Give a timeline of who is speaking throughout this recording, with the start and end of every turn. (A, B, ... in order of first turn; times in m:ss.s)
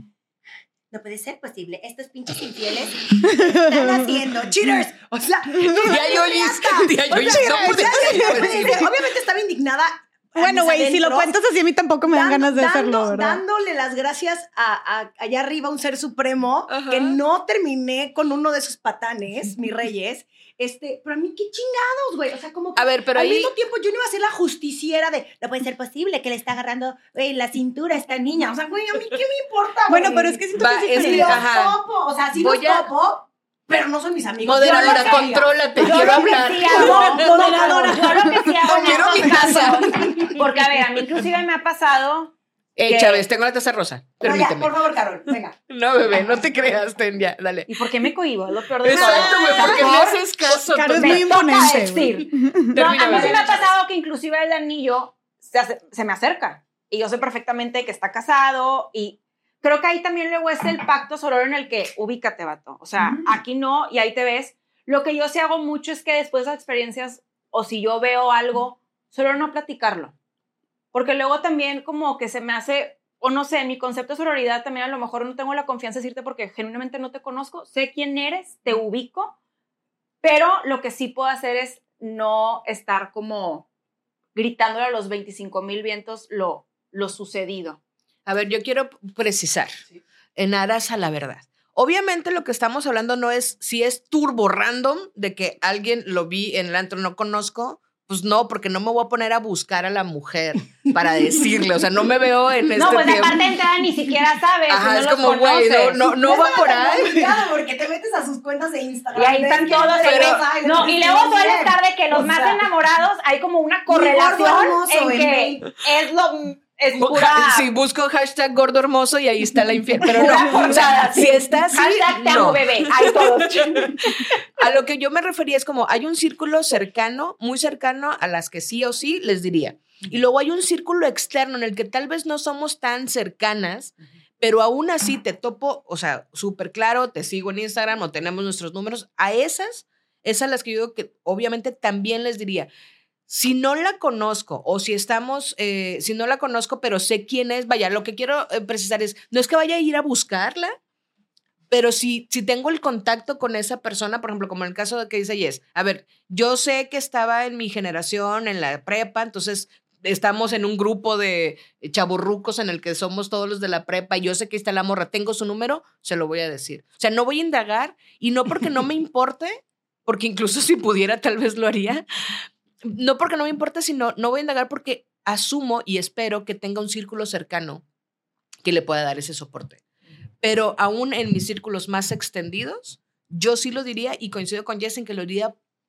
0:00.9-0:11.3 A
0:03.2-0:04.1 B
0:05.5-0:06.0 B
0:05.9-0:08.8 C
0:07.1-0:08.9 B
0:10.4-0:13.4 B
0:12.1-0:40.4 A
0:16.7-0:17.2 C
0:22.8-0:23.5 C
0:29.9-0:31.4 B
0:30.5-0:31.8 C
0:32.4-0:32.9 C
0:34.4-0:40.4 C
0:34.7-0:35.2 D
0:35.8-0:42.3 D
0:42.8-0:44.7 C
0:42.8-0:43.2 D
0:44.2-0:45.6 A
0:45.7-0:47.7 C
0:47.7-0:50.2 D
0:48.8-0:51.5 C
0:49.0-0:49.5 A
0:50.5-0:52.9 B
0:50.9-1:10.1 D
0:52.7-0:53.6 C
0:53.0-0:53.7 A
1:03.0-1:03.4 A
1:10.9-1:19.3 D
1:20.2-1:23.7 D
1:24.3-1:27.8 D
1:28.2-1:29.8 C
1:30.3-1:43.5 C
1:42.8-1:46.0 D
1:44.7-1:47.4 C
1:46.0-1:52.7 A
1:49.1-1:57.7 D
1:50.0-1:50.4 C
1:53.9-1:55.7 A
1:57.0-2:22.7 C
2:00.1-2:04.0 D
2:00.2-2:00.9 A
2:23.3-2:30.8 C
2:31.7-2:57.8 C
2:58.6-2:59.8 C
3:00.4-3:05.5 C